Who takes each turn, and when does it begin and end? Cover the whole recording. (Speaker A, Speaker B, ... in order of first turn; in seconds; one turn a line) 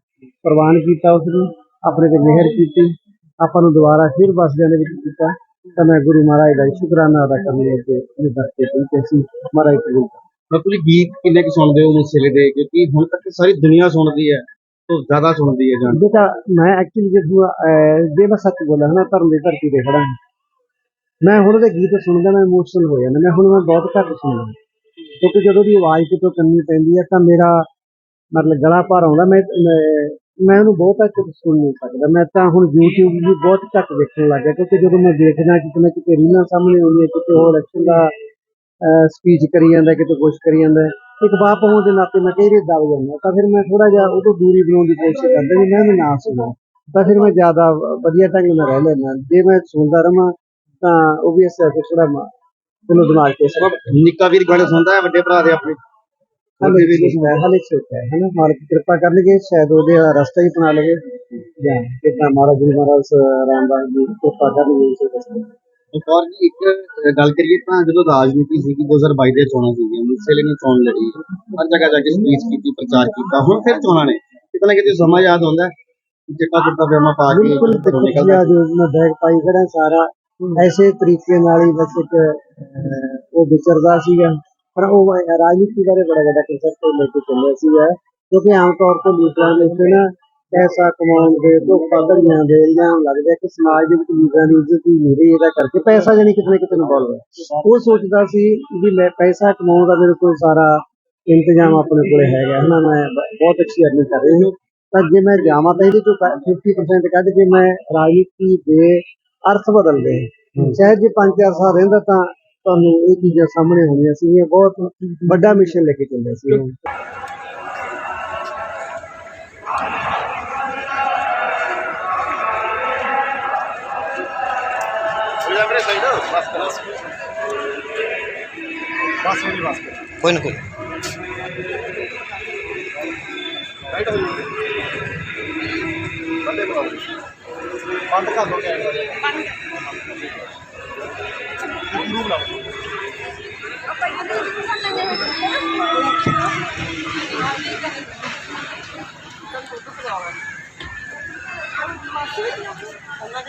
Speaker A: 0.4-10.2
Speaker B: 10.5-16.0
Speaker A: 15.9-20.1
Speaker A: 21.2-24.6
Speaker A: 25.2-27.7
Speaker A: 28.3-38.1
Speaker A: 38.8-52.3
Speaker A: 52.9-53.8
Speaker B: 53.6-55.8
Speaker B: 56.6-57.3
Speaker A: 56.6-65.5
Speaker B: 65.9-75.7
Speaker B: 76.3-78.5
Speaker A: 77.3-116.7
Speaker B: 125.5-126.8
Speaker C: 129.3-129.9
Speaker B: 134.0-134.4
Speaker B: 136.5-137.0
Speaker C: 138.5-138.9
Speaker B: 138.6-139.1
Speaker C: 141.9-142.5
Speaker C: 144.9-146.4
Speaker C: 147.5-147.8
Speaker C: 149.7-150.3
Speaker C: 152.4-152.7